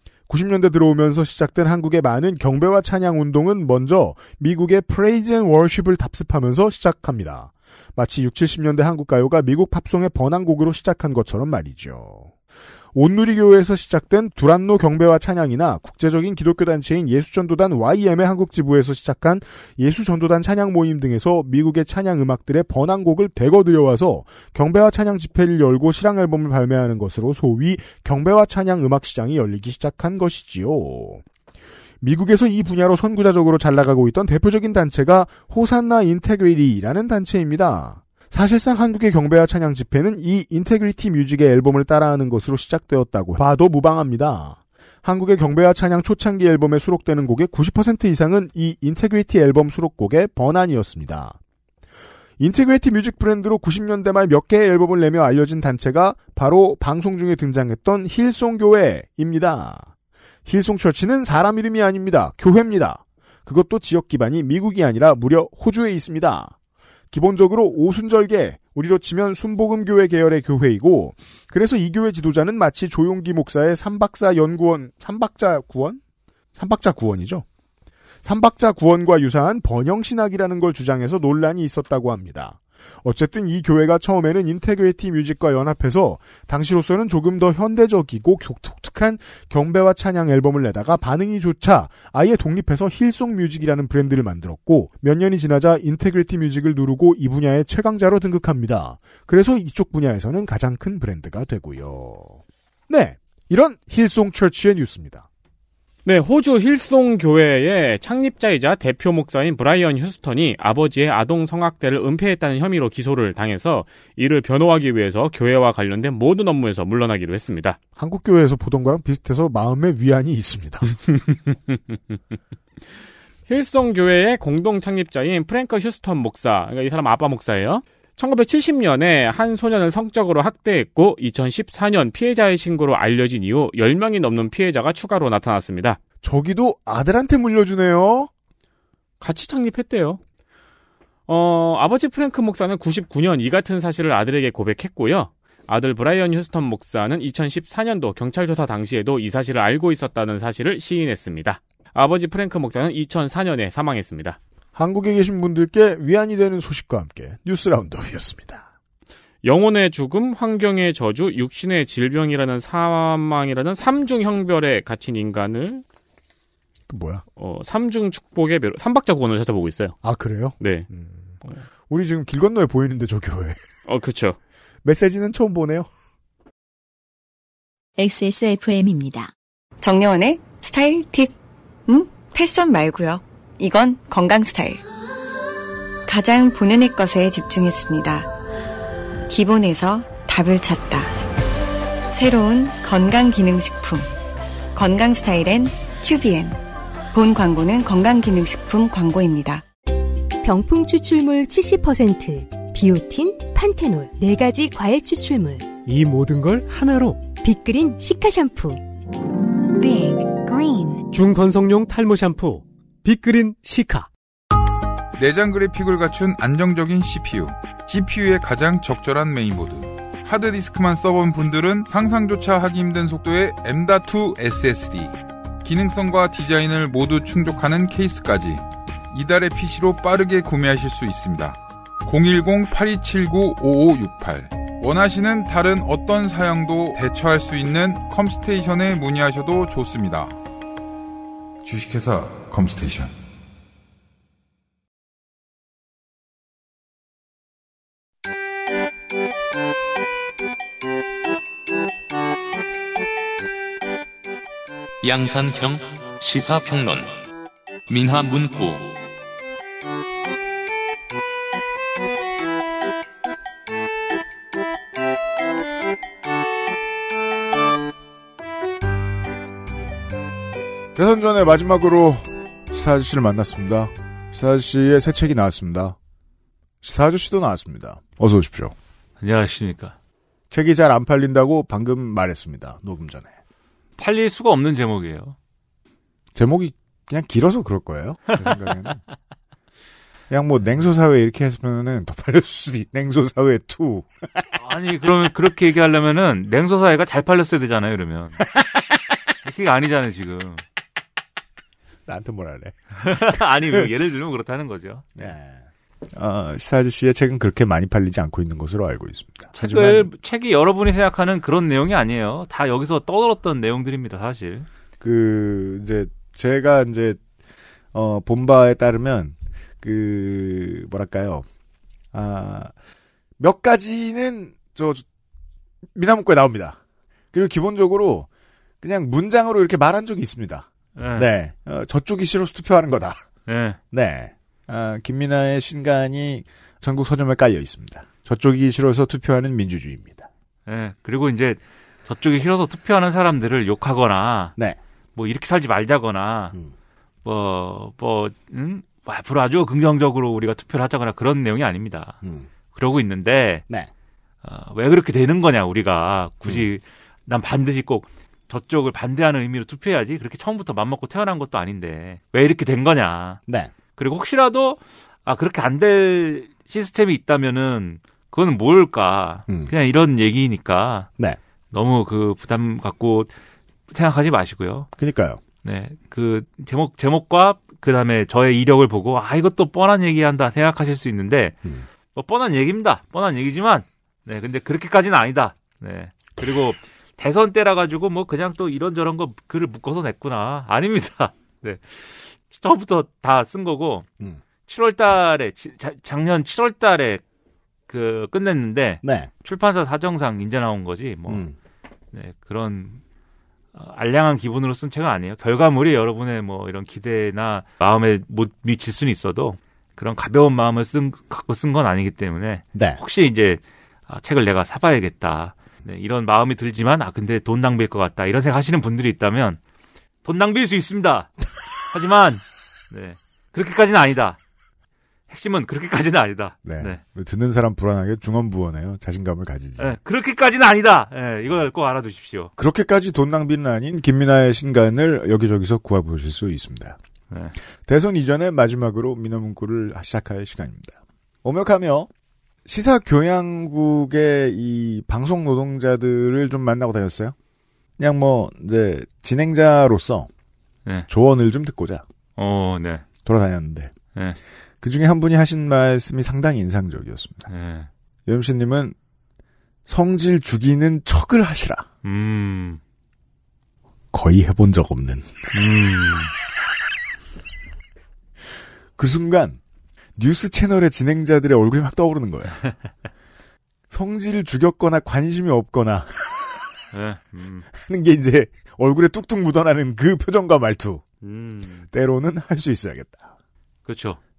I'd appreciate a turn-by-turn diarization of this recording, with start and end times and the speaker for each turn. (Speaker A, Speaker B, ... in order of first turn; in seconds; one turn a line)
Speaker A: 0.3-12.3
Speaker A: 12.9-31.2
Speaker A: 32.0-51.4
Speaker A: 52.4-59.9
Speaker A: 60.5-66.5
Speaker A: 67.1-76.0
Speaker A: 76.5-77.5
Speaker A: 78.2-105.3
Speaker B: 106.0-117.8
Speaker A: 118.0-121.0
Speaker B: 123.5-136.0
Speaker A: 136.2-138.3
Speaker B: 139.2-140.2
Speaker B: 141.3-154.4
Speaker A: 154.8-158.7
Speaker B: 159.4-165.8
Speaker A: 166.9-167.2
Speaker B: 167.4-169.9
Speaker A: 170.0-173.6
Speaker B: 170.6-170.9
Speaker B: 173.9-174.4
Speaker A: 174.8-175.9
Speaker C: 178.0-179.3
Speaker D: 179.8-181.3
Speaker D: 181.9-184.8
Speaker D: 186.1-188.3
Speaker D: 189.3-191.1
Speaker D: 192.1-194.1
Speaker D: 194.8-196.6
Speaker D: 197.1-199.7
Speaker E: 200.4-205.8
Speaker F: 205.9-207.3
Speaker E: 207.3-208.8
Speaker C: 209.8-210.8
Speaker F: 211.1-214.1
Speaker G: 215.2-240.4
Speaker G: 241.6-243.1
Speaker H: 255.0-257.1
Speaker H: 257.9-259.0
Speaker A: 270.9-276.0
Speaker A: 276.8-278.8
Speaker I: 279.2-279.9
Speaker A: 280.5-283.3
Speaker I: 284.0-285.4
Speaker A: 286.4-289.0
Speaker A: 290.3-294.5
Speaker I: 294.6-298.4
Speaker I: 299.4-300.6
Speaker A: 302.1-303.8
Speaker I: 303.0-305.3
Speaker A: 305.2-310.1
Speaker I: 309.5-314.7
Speaker A: 315.0-317.2
Speaker A: 317.9-321.5
Speaker A: 322.1-322.7
Speaker A: 323.4-325.0
Speaker A: 325.9-326.8
Speaker A: 327.3-328.3
Speaker A: 328.8-333.2
Speaker I: 331.0-331.3
Speaker I: 333.5-333.8
Speaker A: 333.9-340.3
Speaker I: 340.7-344.6
Speaker I: 345.2-346.5
Speaker I: 347.2-352.2
Speaker I: 352.8-353.6
Speaker I: 354.4-363.4
Speaker I: 364.0-371.1
Speaker A: 369.5-369.7
Speaker I: 371.7-373.3
Speaker I: 373.9-374.9
Speaker A: 375.0-375.4
Speaker I: 375.6-381.6
Speaker I: 382.1-394.1
Speaker I: 394.7-397.2
Speaker I: 397.9-401.5
Speaker A: 399.0-399.3
Speaker A: 401.3-401.6
Speaker I: 402.1-403.0
Speaker I: 403.7-419.6
Speaker A: 412.7-413.0
Speaker I: 420.2-421.3
Speaker I: 421.9-424.4
Speaker I: 425.3-427.0
Speaker A: 426.6-429.9
Speaker I: 429.8-432.5
Speaker A: 432.6-437.0
Speaker A: 437.9-442.1
Speaker A: 442.7-447.4
Speaker A: 448.0-450.3
Speaker A: 451.1-452.0
Speaker I: 452.4-453.1
Speaker A: 453.2-453.9
Speaker A: 454.8-457.5
Speaker I: 457.5-457.9
Speaker A: 458.3-459.0
Speaker A: 459.9-461.9
Speaker I: 462.0-462.8
Speaker A: 464.1-465.5
Speaker I: 465.5-466.3
Speaker A: 469.0-469.6
Speaker A: 470.2-472.6
Speaker A: 473.9-476.4
Speaker I: 476.9-477.7
Speaker A: 477.7-481.0
Speaker I: 481.2-481.9
Speaker A: 481.9-483.3
Speaker I: 483.9-484.2